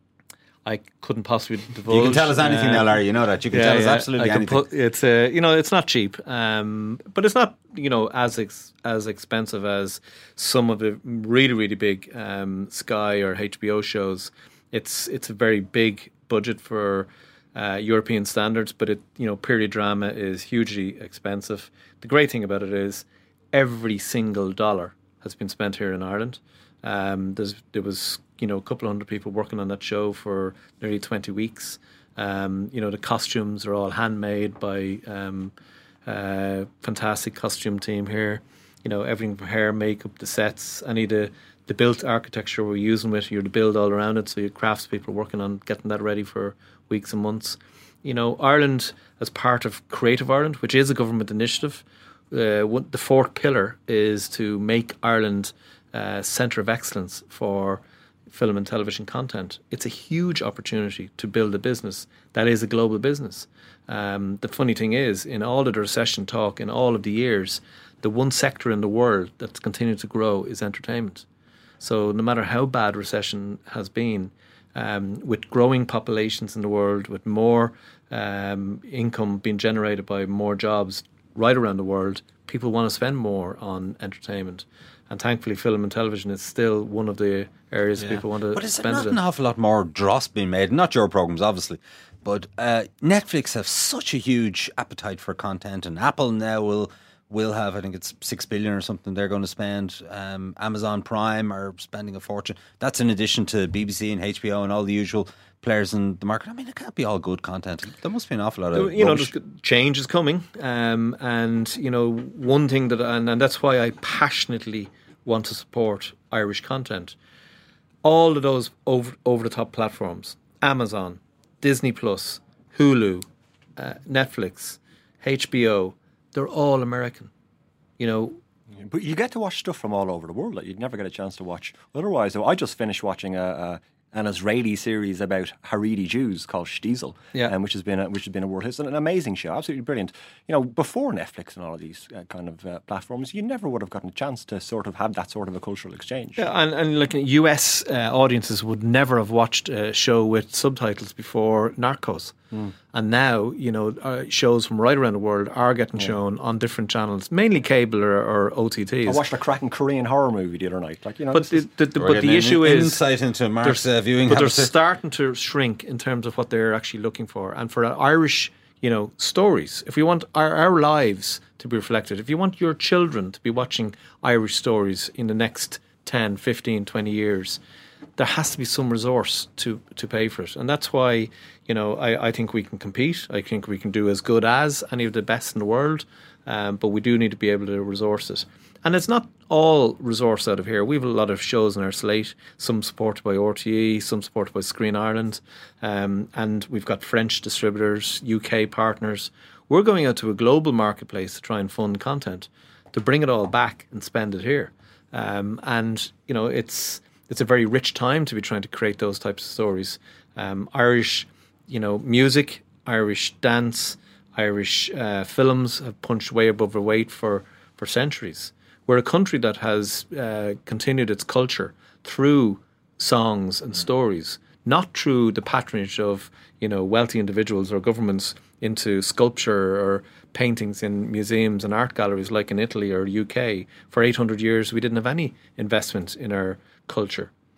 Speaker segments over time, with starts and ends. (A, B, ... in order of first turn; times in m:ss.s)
0:00.6-0:35.5 A
0:01.9-0:04.6 B
0:36.0-1:11.3 A
1:11.8-1:29.2 A
1:28.0-1:49.3 B
1:48.7-1:57.1 A
1:58.0-2:07.3 A
2:08.0-2:08.4 A
2:08.8-2:26.4 C
2:26.4-2:32.3 A
2:32.9-2:39.2 A
2:39.0-2:41.6 C
2:41.3-2:43.0 A
2:42.0-2:44.7 B
2:43.6-2:57.6 A
2:58.2-3:57.3 A